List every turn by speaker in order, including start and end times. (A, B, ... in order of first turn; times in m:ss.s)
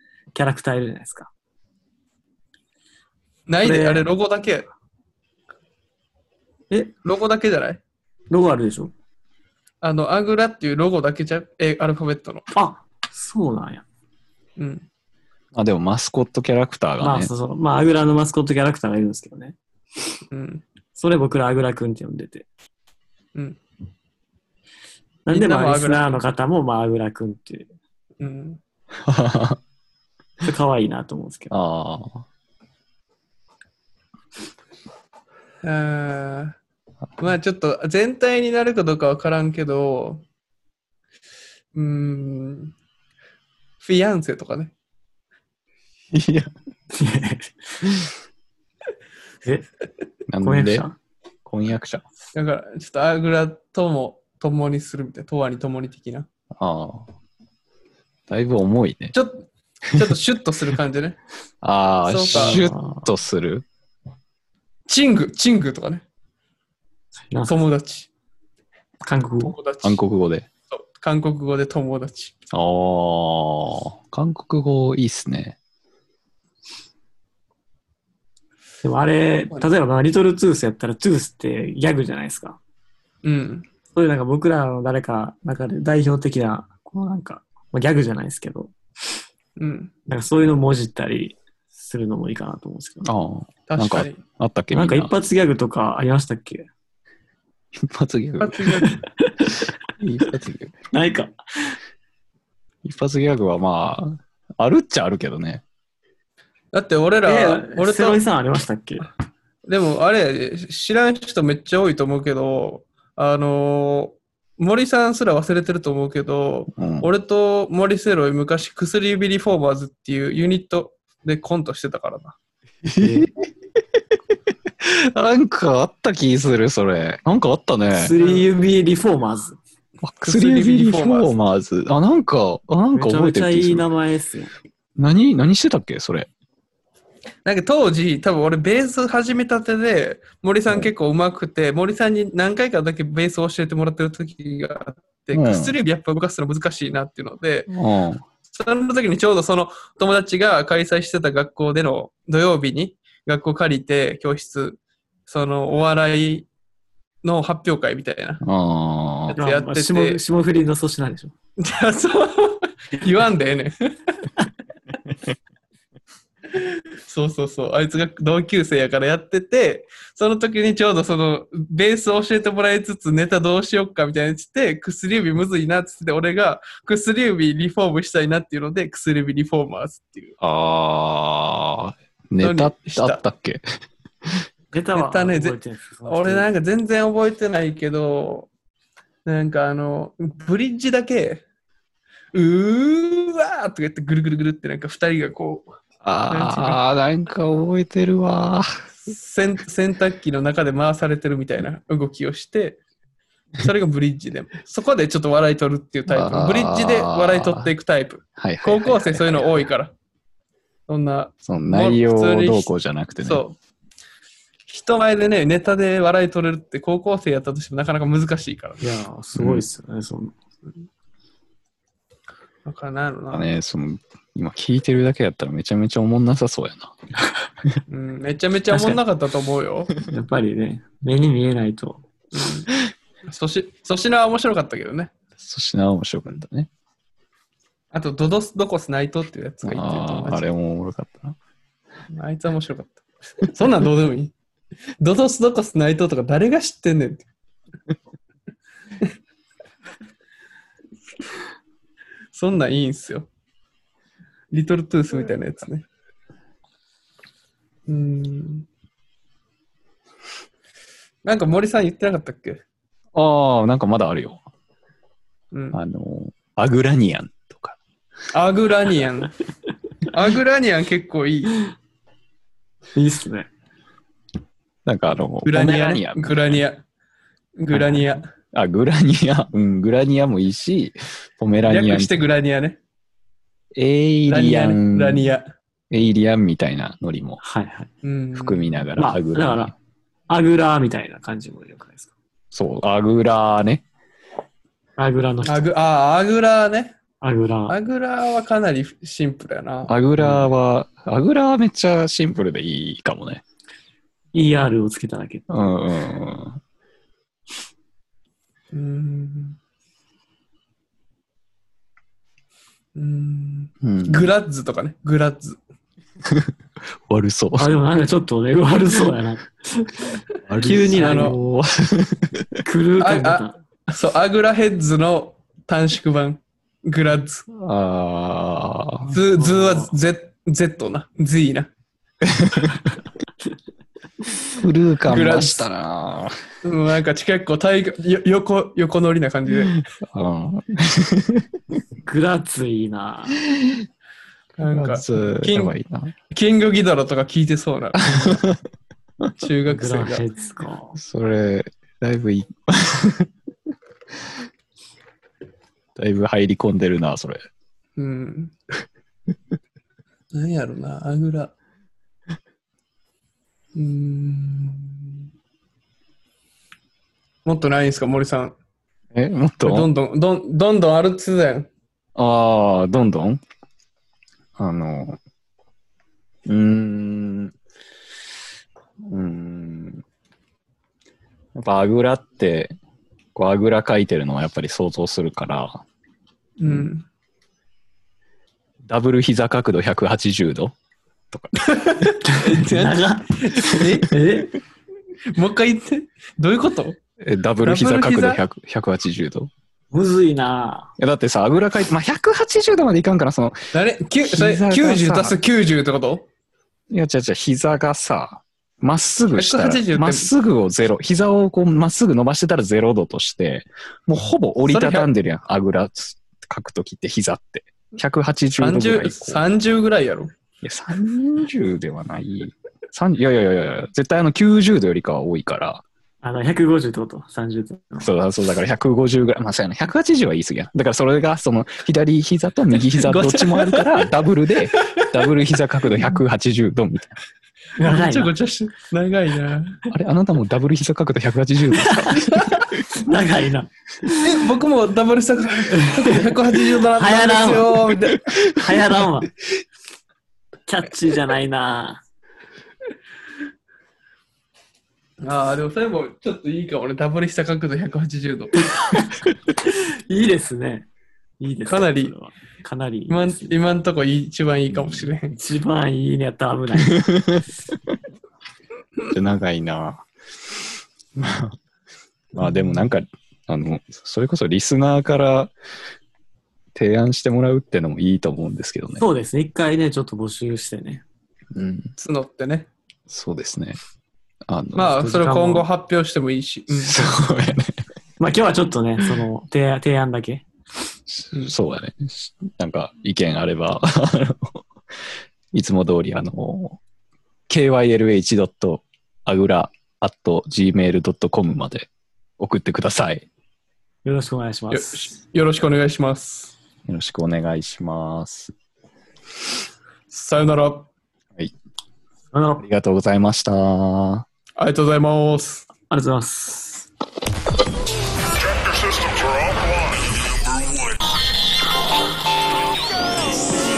0:00.3-0:01.3 A
0:03.5-0:04.7 B
0:03.6-0:04.1 A
0:07.0-0:07.8 B
0:08.3-0:08.9 A
0:09.8-0:12.5 B
0:12.5-0:13.8 A
0:14.6-0:14.8 B
0:15.5-0:17.3 C
0:17.0-0:19.6 A
0:20.3-0:20.6 B
0:20.9-0:22.5 A
0:25.2-0:27.7 A
0:25.3-0:26.2 B
0:28.2-0:28.6 B
0:29.0-0:29.6 C
0:30.4-0:31.6 A
0:31.5-0:32.2 C
0:35.6-0:36.5 B
0:37.2-0:40.2 B
0:41.7-0:42.7 B
0:43.8-0:44.7 B
0:46.1-0:46.5 C
0:46.9-0:47.9 A
0:50.3-0:50.9 C
0:50.4-0:51.0 A
0:51.4-0:52.0 C
0:52.3-0:56.3 B
0:56.5-0:57.1 C
0:58.3-0:59.1 C
0:59.1-1:01.2 B
1:01.6-1:03.6 C
1:02.0-1:02.6 B
1:02.3-1:03.1 A
1:04.9-1:06.0 B
1:07.3-1:07.5 A
1:07.5-1:08.1 B
1:09.0-1:09.6 A
1:09.4-1:10.0 B
1:09.8-1:10.5 C
1:10.7-1:12.3 B
1:12.5-1:15.6 C
1:18.8-1:22.6 A
1:23.2-1:23.7 B
1:23.9-1:28.7 A
1:29.6-1:29.9 B
1:30.1-1:33.1 A
1:33.0-1:35.1 C
1:33.7-1:34.2 B
1:34.7-1:36.7 A
1:37.7-1:38.8 C
1:38.4-1:39.0 B
1:38.8-1:39.7 A
1:39.7-1:40.8 C
1:40.9-1:41.7 A
1:42.8-1:45.6 C
1:46.7-1:48.2 B
1:47.2-1:49.1 A
1:49.7-2:02.4 B
1:56.7-1:57.1 C
2:02.8-2:04.1 C
2:03.0-2:03.3 A
2:04.8-2:08.1 C
2:07.9-2:09.6 A
2:08.2-2:08.5 B
2:10.0-2:13.8 C
2:10.2-2:11.3 B
2:12.9-2:14.5 A
2:15.0-2:16.3 C
2:17.4-2:27.7 B
2:25.3-2:25.7 C
2:27.7-2:28.2 C
2:28.5-2:36.5 B
2:37.2-2:38.4 B
2:38.4-2:39.4 C
2:39.3-2:40.2 B
2:39.4-2:41.3 A
2:41.6-2:44.2 B
2:46.5-3:00.3 B
3:00.4-3:03.6 C
3:02.4-3:03.2 B
3:04.7-3:06.5 A
3:04.9-3:08.5 B
3:09.2-3:11.4 B
3:12.3-3:15.8 B
3:16.0-3:18.8 C
3:16.3-3:16.8 B
3:19.0-3:22.8 B
3:23.6-3:29.9 B
3:26.1-3:27.7 C
3:28.4-3:29.7 C
3:30.9-3:33.6 B
3:31.4-3:33.4 C
3:34.7-3:38.8 B
3:38.8-3:40.3 A
3:39.3-3:39.6 C
3:42.6-3:43.5 B
3:43.3-3:46.9 C
3:47.9-3:49.9 B
3:48.7-3:49.0 A
3:50.0-3:52.1 A
3:52.3-3:52.7 B
3:53.2-3:55.1 B
3:55.4-3:56.7 C
3:57.9-4:00.5 B
3:59.6-4:01.4 C
4:02.1-4:04.3 B
4:05.0-4:07.3 B
4:12.3-4:13.3 B
4:14.5-4:15.8 B
4:17.9-4:18.7 B
4:21.2-4:22.6 B
4:23.1-4:24.4 C
4:25.5-4:25.8 B
4:25.7-4:27.8 C
4:28.3-4:29.3 B
4:30.1-4:31.7 B
4:32.9-4:33.5 A
4:34.8-4:36.6 C
4:35.4-4:36.8 B
4:37.6-4:38.3 B
4:37.7-4:38.2 A
4:38.5-4:42.2 C
4:41.6-4:42.8 B
4:43.7-4:45.3 C
4:44.3-4:45.5 B
4:45.9-4:47.4 C
4:47.4-4:47.9 A
4:48.0-4:48.8 B
4:48.3-4:49.7 C
4:49.0-4:49.7 A
4:50.3-4:52.1 A
4:52.5-4:53.8 C
4:55.0-4:55.7 A
4:55.4-4:57.0 B
4:57.2-4:57.8 A
4:57.7-4:59.9 B
4:59.9-5:03.4 C
5:00.2-5:00.4 A
5:04.3-5:05.9 A
5:05.5-5:06.6 C
5:08.7-5:09.6 B
5:12.9-5:15.6 B
5:13.8-5:14.3 C
5:16.2-5:16.5 C
5:17.1-5:17.7 C
5:17.6-5:21.4 A
5:20.5-5:22.6 C
5:20.6-5:21.4 B
5:22.6-5:23.6 A
5:23.0-5:27.4 B
5:27.5-5:29.2 C
5:29.1-5:31.7 B
5:29.6-5:29.9 A
5:32.2-5:32.7 C
5:34.5-5:36.4 C
5:35.0-5:35.7 B
5:36.6-5:39.8 B
5:39.7-5:41.8 C
5:42.0-5:43.4 A
5:43.5-5:43.9 C
5:44.6-5:45.7 B
5:44.6-5:46.1 C
5:46.3-5:48.4 B
5:47.9-5:48.6 C
5:49.4-5:50.2 B
5:49.7-5:51.0 A
5:51.0-5:53.3 C
5:56.0-5:57.4 C
5:58.0-5:58.5 B
6:00.3-6:01.5 B
6:03.7-6:05.1 B
6:07.4-6:08.5 B
6:09.1-6:09.9 C
6:09.6-6:11.7 B
6:12.2-6:13.4 C
6:14.6-6:15.2 C
6:16.4-6:17.5 C
6:19.0-6:20.0 C
6:21.5-6:22.8 C
6:23.3-6:25.8 C
6:26.6-6:27.0 B
6:28.8-6:30.7 C
6:31.3-6:32.1 C
6:31.6-6:34.2 B
6:32.3-6:34.5 A
6:35.3-6:37.0 B
6:37.2-6:39.5 C
6:37.6-6:38.4 B
6:39.9-6:40.9 A
6:41.0-6:43.6 C
6:43.7-6:46.2 B
6:44.3-6:45.4 C
6:46.9-6:59.4 C
6:49.3-6:50.3 B
6:54.6-6:55.1 B
6:58.6-7:00.3 B
7:00.6-7:05.8 C
7:06.2-7:08.1 A
7:08.0-7:17.2 C
7:12.9-7:14.0 B
7:14.8-7:15.2 B
7:17.8-7:18.3 A
7:17.8-7:19.8 B
7:19.9-7:22.7 C
7:21.9-7:22.1 A
7:22.3-7:22.6 B
7:22.9-7:24.3 A
7:24.2-7:28.2 B
7:25.7-7:27.9 A
7:28.5-7:29.3 A
7:30.7-7:32.0 A
7:35.2-7:38.7 B
7:38.7-7:39.1 A
7:39.7-7:40.9 A
7:41.4-7:43.8 A
7:41.6-7:42.1 B
7:43.1-7:45.3 B
7:44.7-7:45.0 C
7:45.3-7:47.2 A
7:47.0-7:47.4 C
7:49.1-7:50.0 C
7:51.1-7:51.6 C
7:52.4-7:55.5 C
7:52.4-7:52.9 B
7:56.7-7:59.0 C
7:59.0-8:01.0 A
8:01.5-8:01.9 C
8:02.0-8:02.7 B
8:03.1-8:03.8 C
8:04.5-8:05.0 C
8:04.8-8:07.1 B
8:04.9-8:05.7 A
8:06.7-8:07.8 C
8:08.2-8:10.4 A
8:11.1-8:14.6 C
8:15.5-8:16.8 C
8:17.5-8:23.3 C
8:24.0-8:25.1 A
8:24.7-8:26.5 B
8:26.9-8:28.5 C
8:30.1-8:30.9 B
8:32.3-8:32.6 A
8:32.6-8:34.2 C
8:34.6-8:35.7 B
8:35.9-8:36.9 A